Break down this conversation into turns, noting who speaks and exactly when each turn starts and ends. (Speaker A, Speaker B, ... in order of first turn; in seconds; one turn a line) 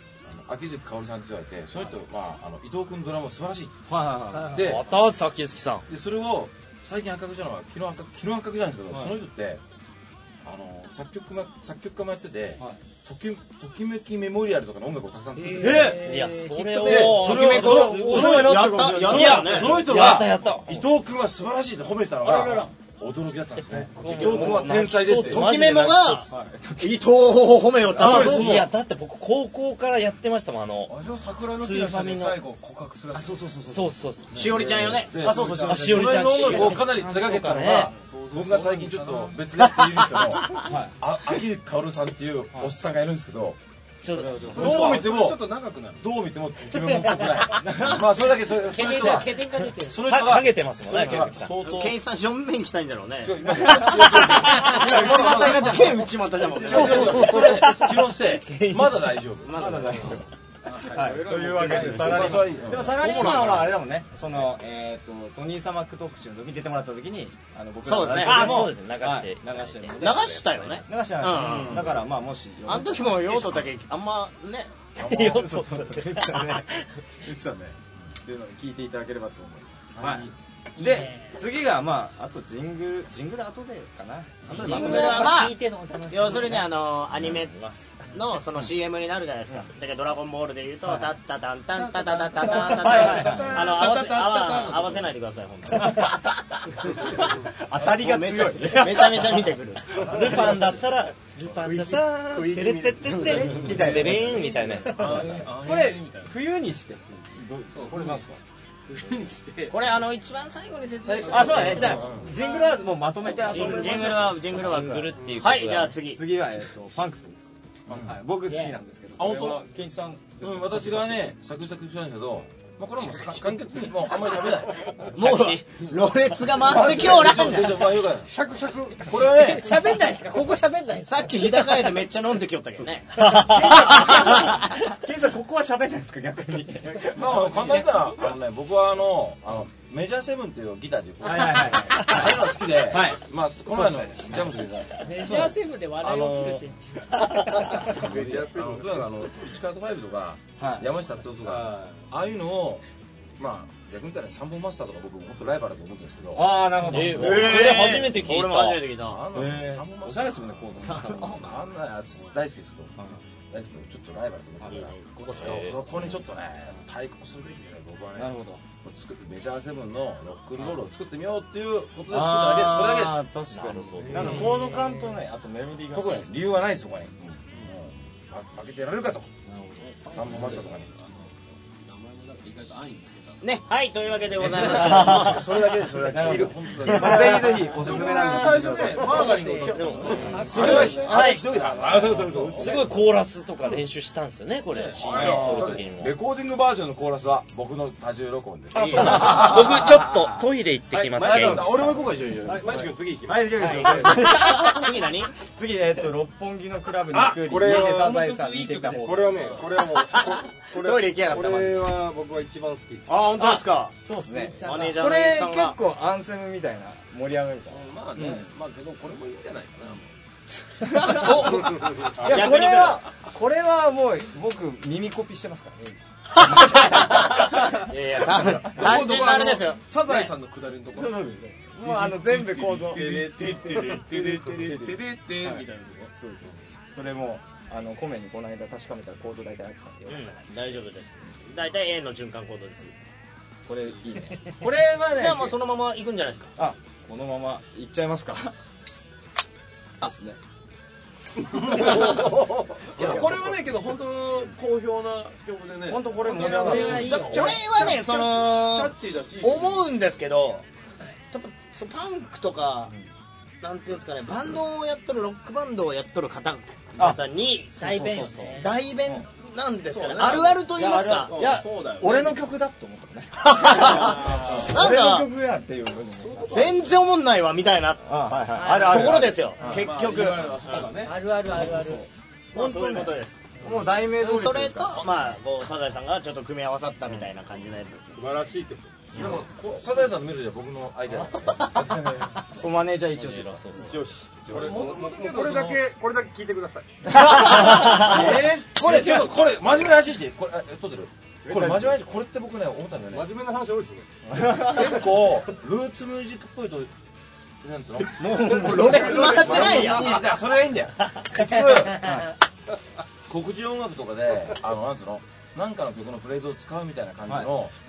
Speaker A: 0.2-3.8
Speaker B: 3.9-4.7
Speaker A: 4.4-4.9
Speaker C: 4.6-5.8
Speaker A: 5.9-9.6
Speaker B: 8.9-9.2
Speaker A: 10.4-16.1
Speaker D: 15.3-16.9
Speaker B: 15.6-16.1
Speaker C: 16.0-20.8
Speaker A: 16.8-25.5
Speaker B: 16.9-19.8
Speaker E: 17.0-19.9
Speaker E: 22.2-22.7
Speaker C: 23.8-26.3
Speaker E: 24.1-24.5
Speaker B: 24.2-24.9
Speaker E: 25.2-26.3
Speaker B: 26.3-27.2
Speaker E: 26.8-28.6
Speaker A: 27.9-28.7
Speaker B: 28.0-28.6
Speaker C: 28.0-32.4
Speaker F: 30.9-33.5
Speaker A: 33.1-43.6
Speaker C: 33.7-37.9
Speaker E: 34.3-35.1
Speaker F: 35.2-36.0
Speaker B: 35.2-37.8
Speaker F: 38.0-39.5
Speaker B: 40.5-41.0
Speaker C: 44.0-45.1
Speaker B: 44.1-45.1
Speaker A: 44.5-52.0
Speaker F: 44.5-46.2
Speaker D: 46.8-47.4
Speaker B: 47.5-48.1
Speaker D: 48.6-50.1
Speaker C: 50.0-51.6
Speaker E: 51.6-57.6
Speaker A: 53.2-55.9
Speaker B: 53.6-54.2
Speaker B: 54.8-57.6
Speaker A: 56.5-59.9
Speaker C: 57.2-57.9
Speaker C: 58.5-59.0
Speaker E: 59.4-60.1
Speaker B: 59.5-73.7
Speaker F: 60.6-62.5
Speaker G: 61.0-62.1
Speaker A: 61.5-63.8
Speaker E: 67.8-68.5
Speaker A: 68.2-68.7
Speaker C: 68.2-70.8
Speaker E: 70.0-71.9
Speaker A: 71.3-71.9
Speaker E: 72.7-74.7
Speaker B: 75.0-85.3
Speaker C: 75.0-76.8
Speaker A: 75.1-75.5
Speaker A: 80.0-80.3
Speaker D: 80.8-81.4
Speaker D: 84.5-86.7
Speaker E: 84.5-87.5
Speaker E: 88.1-96.2
Speaker B: 92.2-95.0
Speaker B: 95.7-100.4
Speaker E: 97.8-100.0
Speaker C: 100.0-105.4
Speaker F: 100.4-100.7
Speaker G: 101.6-103.7
Speaker B: 103.1-108.4
Speaker D: 104.7-105.1
Speaker F: 104.9-106.4
Speaker F: 107.8-108.3
Speaker F: 108.9-109.9
Speaker E: 109.7-112.2
Speaker A: 111.0-112.4
Speaker B: 111.3-115.2
Speaker F: 113.3-114.3
Speaker E: 113.5-116.2
Speaker C: 114.5-116.0
Speaker B: 115.7-121.3
Speaker A: 117.9-118.2
Speaker D: 118.5-118.8
Speaker A: 119.2-119.6
Speaker A: 120.4-125.5
Speaker E: 125.1-127.9
Speaker A: 126.5-128.4
Speaker G: 128.2-129.1
Speaker A: 129.0-130.0
Speaker D: 129.1-131.9
Speaker E: 131.0-134.7
Speaker C: 133.2-133.8
Speaker B: 133.4-138.2
Speaker D: 133.8-134.3
Speaker A: 137.1-146.7
Speaker B: 141.2-144.5
Speaker D: 145.0-147.9
Speaker A: 147.7-152.8
Speaker G: 147.9-149.2
Speaker B: 150.6-150.9
Speaker G: 151.4-152.0
Speaker A: 153.4-156.6
Speaker B: 156.3-158.1
Speaker C: 156.9-158.9
Speaker E: 157.1-159.2
Speaker A: 158.9-162.9
Speaker B: 159.3-161.6
Speaker A: 163.5-173.3
Speaker E: 164.7-165.7
Speaker C: 165.4-165.8
Speaker B: 168.1-168.6
Speaker B: 172.1-176.4
Speaker C: 173.5-174.5
Speaker A: 174.1-174.5
Speaker D: 174.2-175.1
Speaker A: 175.9-179.3
Speaker B: 179.5-179.8
Speaker F: 179.8-183.6
Speaker A: 180.1-180.9
Speaker E: 183.4-185.5
Speaker F: 184.4-184.6
Speaker A: 184.6-187.7
Speaker C: 184.8-185.3
Speaker B: 186.1-189.3
Speaker F: 187.0-192.9
Speaker G: 187.3-188.2
Speaker D: 189.1-191.2
Speaker C: 189.8-190.8
Speaker A: 190.4-192.9
Speaker B: 190.5-191.0
Speaker E: 190.6-191.4
Speaker G: 191.8-192.6
Speaker C: 192.6-196.2
Speaker F: 194.7-195.5
Speaker A: 194.7-200.4
Speaker C: 198.8-201.8
Speaker G: 200.9-201.5
Speaker A: 201.0-202.9
Speaker B: 201.2-202.0
Speaker G: 202.4-204.1
Speaker B: 203.3-209.7
Speaker E: 203.5-205.3
Speaker G: 207.1-213.1
Speaker F: 207.5-209.6
Speaker E: 210.1-211.8
Speaker E: 213.1-213.9
Speaker B: 213.3-218.5
Speaker D: 214.3-215.1
Speaker E: 214.6-215.8
Speaker F: 217.7-220.1
Speaker B: 220.8-227.8
Speaker F: 220.8-222.2
Speaker E: 221.0-223.0
Speaker E: 226.3-229.8
Speaker F: 228.5-236.1
Speaker B: 230.0-230.3
Speaker B: 230.9-235.7
Speaker B: 236.2-240.8
Speaker E: 240.1-242.9
Speaker B: 243.7-245.6
Speaker E: 245.1-246.5
Speaker B: 246.6-248.6
Speaker B: 250.0-250.4
Speaker F: 251.5-259.9
Speaker G: 251.8-252.6
Speaker B: 251.9-252.3
Speaker B: 252.9-253.7
Speaker B: 255.8-257.6
Speaker E: 256.4-260.6
Speaker E: 261.3-262.9
Speaker E: 263.6-267.9
Speaker B: 267.0-267.2
Speaker D: 267.8-268.7
Speaker B: 267.8-269.2
Speaker E: 268.6-271.4
Speaker F: 269.9-272.5
Speaker B: 270.2-276.8
Speaker E: 273.4-275.3
Speaker F: 274.1-274.6
Speaker F: 276.2-276.8
Speaker E: 276.5-280.9
Speaker B: 278.1-279.9
Speaker D: 278.5-279.9
Speaker F: 279.6-281.2
Speaker D: 280.9-282.1
Speaker B: 281.4-285.2
Speaker E: 282.5-283.4
Speaker E: 284.1-288.2
Speaker G: 288.1-289.2
Speaker A: 289.1-292.4
Speaker B: 292.6-293.9
Speaker C: 293.1-294.1
Speaker G: 293.7-297.1
Speaker B: 294.4-294.9
Speaker F: 294.5-295.8
Speaker B: 297.1-298.2
Speaker A: 297.1-303.4
Speaker C: 297.7-298.1
Speaker B: 298.8-299.2
Speaker B: 301.5-302.0
Speaker G: 303.1-304.1
Speaker B: 304.3-305.0
Speaker A: 304.4-306.9
Speaker A: 307.6-312.2
Speaker E: 308.2-310.2
Speaker B: 312.0-312.3
Speaker A: 313.3-317.8
Speaker B: 317.3-317.5